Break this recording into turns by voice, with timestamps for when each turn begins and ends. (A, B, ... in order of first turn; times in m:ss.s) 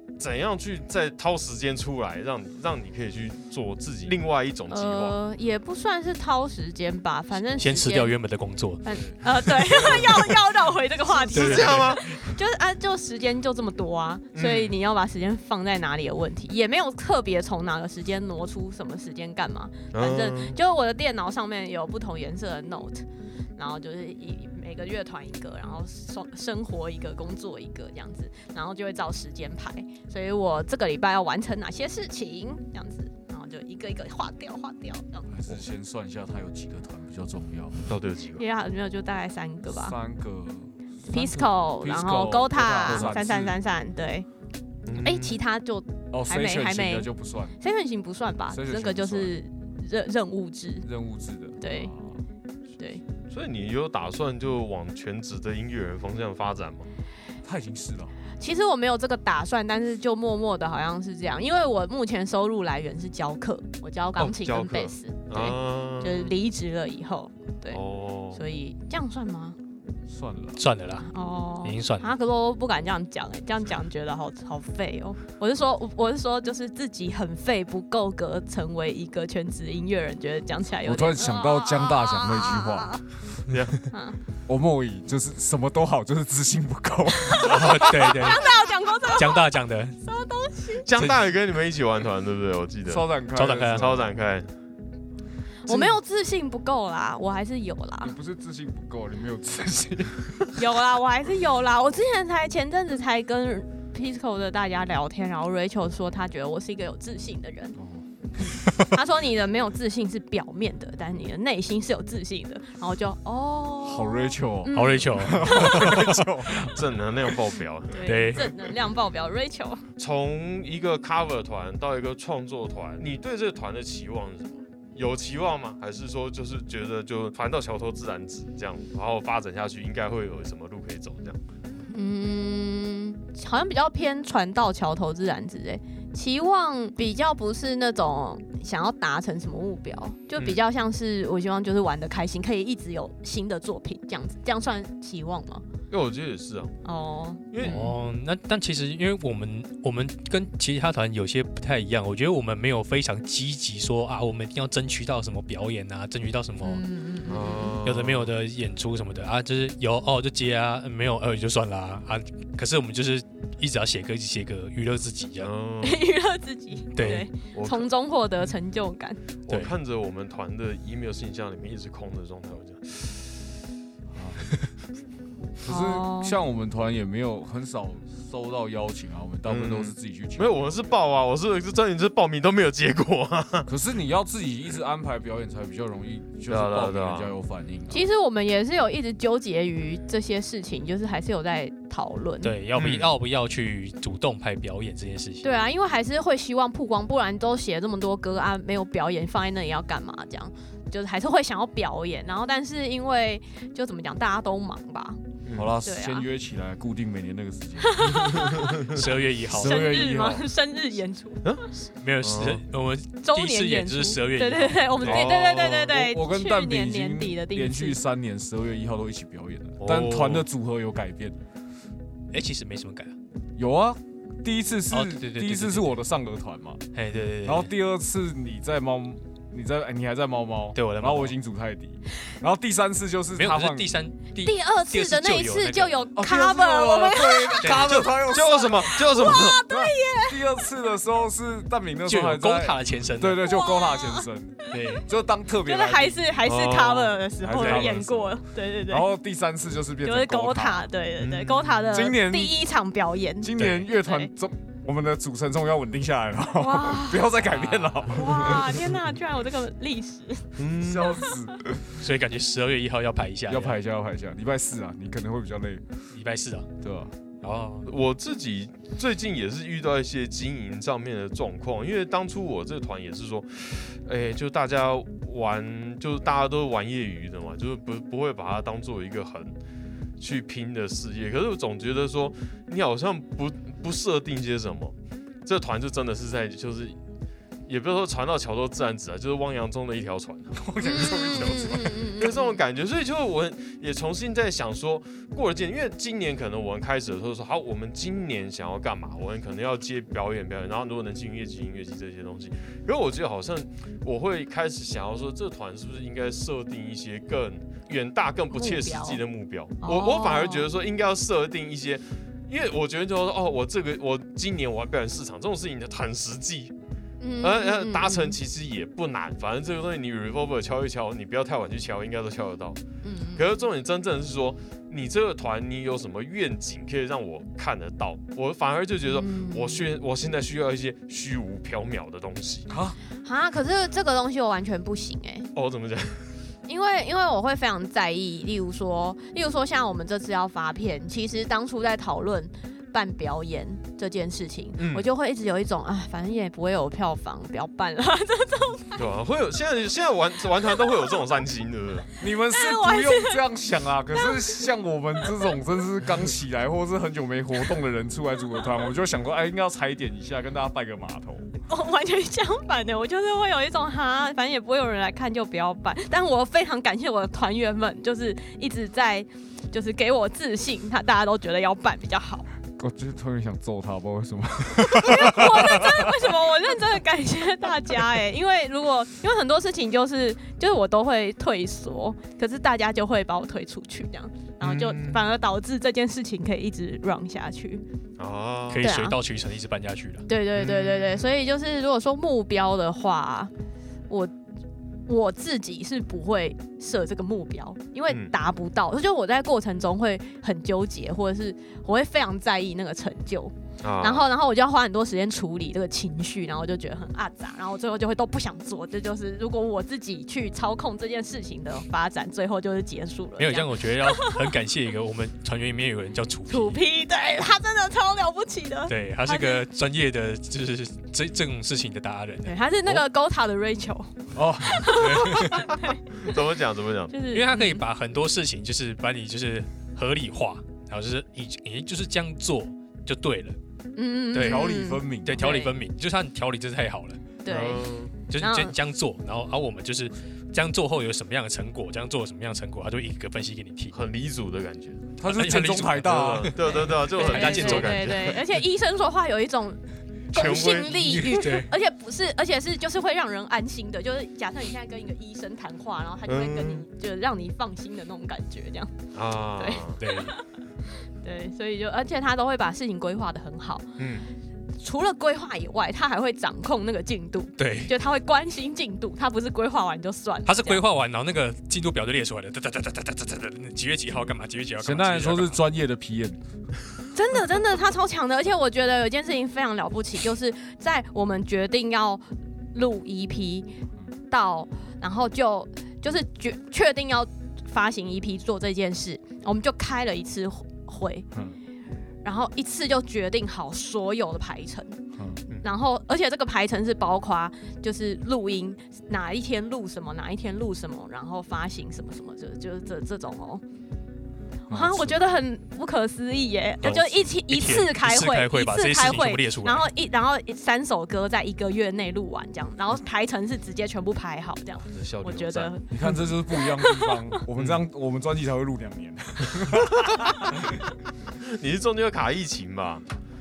0:00.2-0:05.2 A
0:04.7-0:08.1 B
0:07.6-0:08.8 C
0:08.8-0:35.3 B
0:09.6-0:10.2 C
0:11.2-0:12.1 A
0:11.3-0:12.1 C
0:14.3-0:14.8 A
0:19.9-0:20.6 A
0:35.3-0:37.9 D
0:37.9-0:38.4 A
0:38.4-0:40.0 B
0:39.7-0:43.5 D
0:41.1-0:44.3 B
0:42.9-0:43.5 A
0:44.8-0:45.4 A
0:45.0-0:50.9 B
0:46.1-0:47.6 D
0:48.5-0:49.3 D
0:50.8-0:52.2 D
0:51.6-0:51.9 B
0:52.8-0:53.0 B
0:53.3-0:56.9 A
0:57.4-0:58.1 D
0:58.4-1:07.8 B
1:04.2-1:06.3 A
1:07.7-1:08.4 A
1:08.3-1:09.6 B
1:10.1-1:10.6 D
1:10.6-1:11.1 C
1:11.0-1:23.0 B
1:11.6-1:12.1 C
1:20.8-1:23.0 D
1:23.5-1:23.8 A
1:23.9-1:24.2 B
1:24.5-1:28.0 D
1:27.2-1:29.5 B
1:27.4-1:28.5 C
1:29.0-1:30.0 C
1:30.0-1:30.9 B
1:30.8-1:33.1 A
1:31.0-1:31.2 C
1:32.9-1:34.1 D
1:33.3-1:33.9 C
1:33.7-1:34.5 A
1:35.6-1:38.1 B
1:35.7-1:35.9 D
1:38.0-1:40.6 D
1:40.6-1:47.7 B
1:47.8-1:48.6 D
1:48.9-1:55.9 B
1:53.8-1:56.8 D
1:54.7-1:56.2 C
1:56.6-1:58.1 A
1:57.9-1:59.8 B
1:58.0-1:58.5 C
2:00.0-2:11.4 A
2:11.9-2:25.6 B
2:25.9-2:26.7 A
2:26.8-2:27.9 B
2:27.5-2:27.9 A
2:27.6-2:36.8 C
2:36.6-2:37.7 B
2:37.3-2:38.3 A
2:37.8-2:45.5 C
2:45.4-2:46.0 A
2:45.8-2:49.2 B
2:46.9-2:47.3 C
2:47.5-2:47.9 A
2:49.4-2:53.4 A
2:54.1-2:54.5 D
2:55.6-3:00.9 D
2:55.7-2:56.4 B
2:59.4-3:03.7 A
3:03.7-3:08.0 D
3:06.5-3:07.3 A
3:07.9-3:12.5 B
3:12.4-3:15.5 C
3:12.7-3:13.1 A
3:15.4-3:25.2 B
3:25.4-3:25.7 A
3:25.5-3:28.5 D
3:25.8-3:26.2 B
3:27.8-3:28.7 B
3:28.1-3:29.0 A
3:28.8-3:29.9 C
3:29.4-3:30.4 D
3:29.6-3:31.7 B
3:32.0-3:35.2 C
3:32.2-3:32.6 A
3:33.2-3:38.0 B
3:35.0-3:35.9 A
3:35.2-3:41.4 D
3:39.8-3:40.4 A
3:42.3-3:43.1 C
3:43.6-3:46.8 D
3:44.9-3:46.0 C
3:46.9-3:47.7 C
3:47.4-3:53.9 D
3:50.7-3:51.3 C
3:53.4-3:56.1 C
3:54.4-3:58.0 B
3:56.2-3:59.0 D
3:57.6-3:58.0 C
3:57.7-3:59.6 A
3:58.6-4:00.6 B
3:59.6-4:06.3 D
4:02.1-4:03.4 C
4:03.4-4:05.0 B
4:04.7-4:05.0 C
4:05.6-4:09.0 B
4:06.4-4:07.3 A
4:07.4-4:10.9 D
4:07.5-4:08.0 C
4:10.0-4:14.3 B
4:11.2-4:12.0 A
4:11.9-4:12.6 D
4:13.4-4:19.0 D
4:13.6-4:13.8 C
4:16.5-4:17.3 B
4:17.3-4:18.5 C
4:18.1-4:21.3 B
4:20.6-4:21.2 A
4:20.8-4:21.8 D
4:21.9-4:23.8 C
4:23.5-4:25.9 D
4:26.1-4:26.7 C
4:26.8-4:27.1 D
4:27.4-4:27.9 C
4:27.8-4:39.6 A
4:40.2-4:47.0 A
4:47.7-5:16.7 A
4:50.6-4:52.2 D
4:50.8-4:52.6 B
5:08.5-5:09.2 B
5:09.8-5:10.7 B
5:17.2-5:18.4 B
5:17.4-5:22.8 A
5:23.0-5:23.4 B
5:23.3-5:32.7 A
5:29.1-5:29.8 B
5:32.7-5:33.0 D
5:33.2-5:35.5 B
5:35.5-5:36.3 A
5:36.7-5:49.0 B
5:44.8-5:45.1 A
5:48.9-5:52.1 A
5:52.2-6:01.5 D
5:52.5-5:53.5 B
5:54.1-5:54.7 B
5:55.2-5:55.5 B
6:01.7-6:12.5 B
6:12.8-6:16.3 D
6:14.8-6:27.8 B
6:24.6-6:25.2 A
6:28.2-6:28.8 A
6:28.7-6:30.2 C
6:28.8-6:29.2 B
6:30.3-6:33.5 B
6:30.5-6:31.2 A
6:35.1-6:54.5 B
6:43.8-6:44.2 A
6:53.4-6:56.8 C
6:56.5-6:59.6 B
6:58.9-7:03.0 C
7:02.4-7:06.3 B
7:04.3-7:05.1 D
7:04.9-7:05.7 C
7:06.2-7:07.1 A
7:07.1-7:07.8 B
7:07.3-7:13.6 C
7:14.0-7:15.8 B
7:14.3-7:17.2 C
7:14.4-7:15.4 D
7:17.4-7:18.7 B
7:17.5-7:18.1 A
7:18.3-7:24.1 C
7:23.9-7:25.0 A
7:25.2-7:26.5 D
7:25.2-7:28.4 C
7:26.1-7:28.4 A
7:26.7-7:29.8 B
7:30.3-7:38.9 B
7:30.3-7:31.3 A
7:30.4-7:31.7 C
7:36.2-7:36.8 A
7:39.1-7:40.0 A
7:39.6-7:40.5 B
7:40.0-7:40.3 C
7:41.1-7:44.0 B
7:44.0-7:44.2 A
7:44.8-7:50.8 B
7:47.6-7:47.9 C
7:50.4-7:55.6 C
7:54.8-7:56.4 D
7:57.1-8:03.7 B
8:04.3-8:11.3 B
8:12.2-8:15.0 B
8:15.6-8:23.6 B
8:24.7-8:25.2 D
8:24.7-8:37.2 B
8:26.8-8:29.9 C
8:34.8-8:35.7 A
8:35.9-8:40.8 D
8:37.6-8:37.8 A
8:41.4-8:43.0 A